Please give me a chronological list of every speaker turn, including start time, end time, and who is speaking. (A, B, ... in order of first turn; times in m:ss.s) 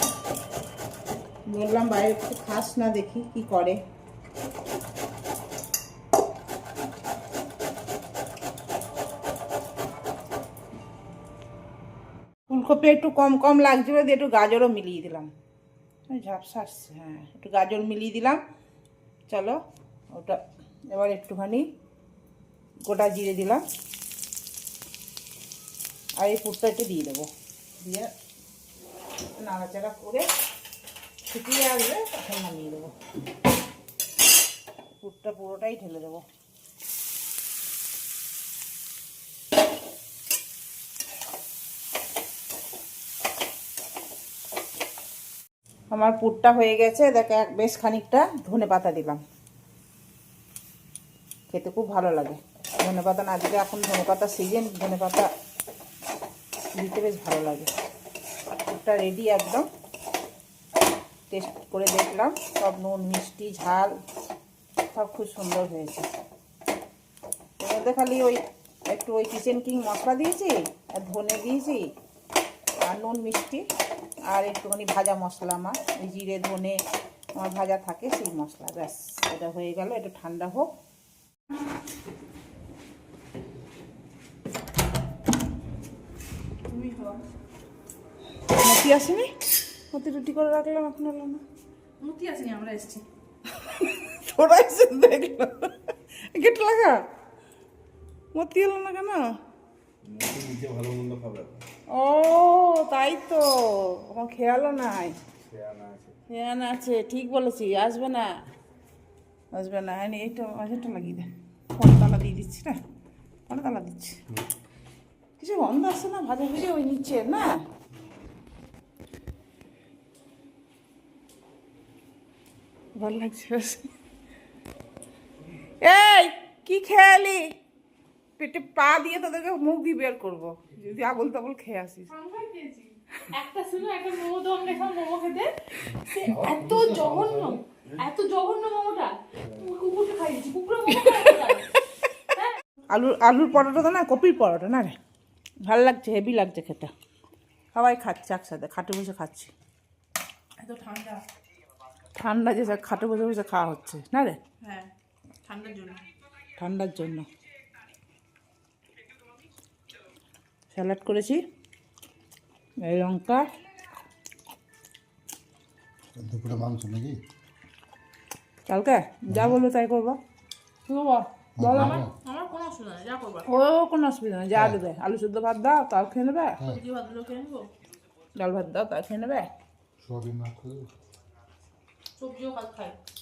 0:01.5-0:03.8 A
0:12.5-0:15.3 A
0:16.1-0:18.4 A
0:19.3-0:19.6 A
0:20.1-0:21.6 A
0:22.8-0:23.6 A
0:26.2-0:27.3 A
0:27.8-0:28.1 A
0:29.4-0:30.3 A
0:31.3-0:32.9 A
0:35.0-0:36.2 A
0:45.9-0:49.2 A
0:51.5-0:55.2 A
0:56.8-0:57.7 A
0:58.7-0:59.7 A
1:01.3-1:03.9 A
1:04.9-1:06.1 A
1:07.6-1:11.8 A
1:12.8-1:13.6 A
1:14.3-1:16.8 A
1:17.3-1:20.7 A
1:26.7-1:27.2 B
1:28.5-1:29.3 A
1:29.9-1:31.4 A
1:32.0-1:33.0 B
1:33.5-1:36.9 A
1:38.3-1:39.2 A
1:40.0-1:41.6 C
1:41.9-1:45.2 A
1:45.4-1:46.1 C
1:46.3-1:48.3 A
1:49.5-1:52.8 A
1:53.5-1:54.2 A
1:55.4-1:57.5 A
2:03.0-2:03.9 A
2:05.8-2:07.4 A
2:08.4-2:12.1 A
2:12.1-2:15.5 B
2:16.0-2:21.7 B
2:16.1-2:17.6 D
2:22.9-2:24.9 A
2:25.6-2:26.9 A
2:27.7-2:29.5 A
2:30.6-2:31.2 B
2:32.1-2:34.4 A
2:34.6-2:34.9 B
2:35.4-2:36.0 B
2:36.6-2:37.3 A
2:40.7-2:41.4 A
2:42.8-2:43.4 A
2:46.2-2:47.2 D
2:48.7-2:50.2 A
2:49.3-2:49.5 D
2:50.9-2:52.0 A
2:51.6-2:52.1 D
2:51.8-2:53.5 B
2:53.4-2:56.6 A
2:56.6-2:57.7 B
2:58.4-2:59.5 A
3:00.0-3:00.9 D
3:02.2-3:03.0 B